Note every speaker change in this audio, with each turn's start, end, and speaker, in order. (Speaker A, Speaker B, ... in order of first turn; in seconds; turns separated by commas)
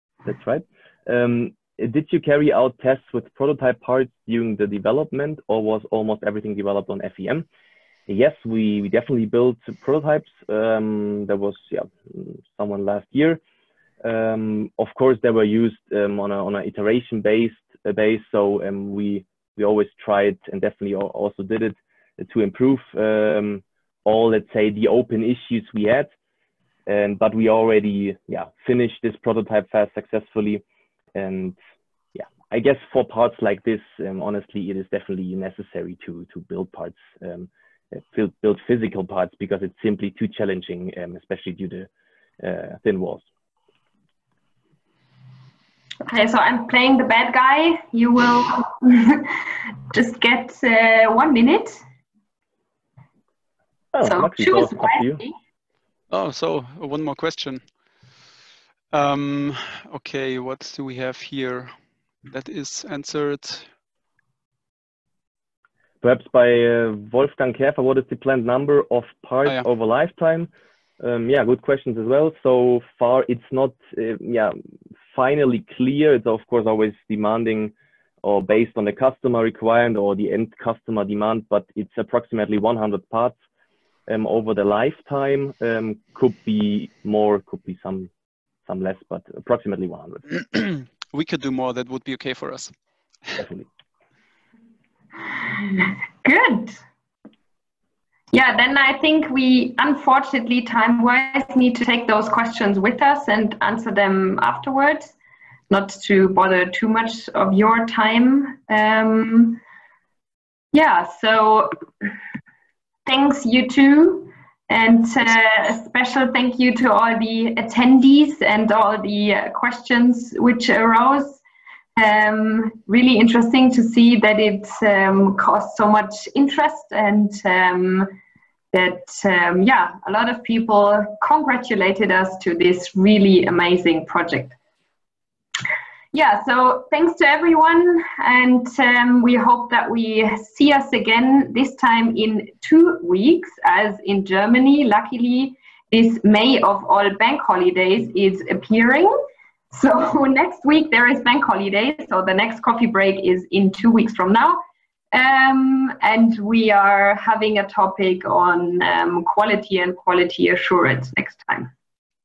Speaker A: 0.2-7.5, Speaker A: 8.1-13.4, Speaker A: 14.0-26.1, Speaker A: 26.9-30.6, Speaker A: 31.1-31.6, Speaker A: 32.1-41.9, Speaker A: 42.4-43.2, Speaker B: 46.0-51.8, Speaker A: 53.9-55.2, Speaker B: 54.0-55.3, Speaker C: 56.1-57.6, Speaker C: 58.9-61.7, Speaker C: 62.3-63.7, Speaker A: 66.0-74.5, Speaker A: 75.1-83.3, Speaker A: 84.1-88.1, Speaker A: 88.7-90.2, Speaker C: 90.4-92.7, Speaker A: 93.4-93.7, Speaker B: 95.2-96.8, Speaker B: 98.3-105.1, Speaker B: 105.7-109.6, Speaker B: 110.7-111.8, Speaker B: 113.0-121.4, Speaker B: 122.0-128.1, Speaker B: 128.7-134.6, Speaker B: 136.1-149.1, Speaker B: 149.7-161.7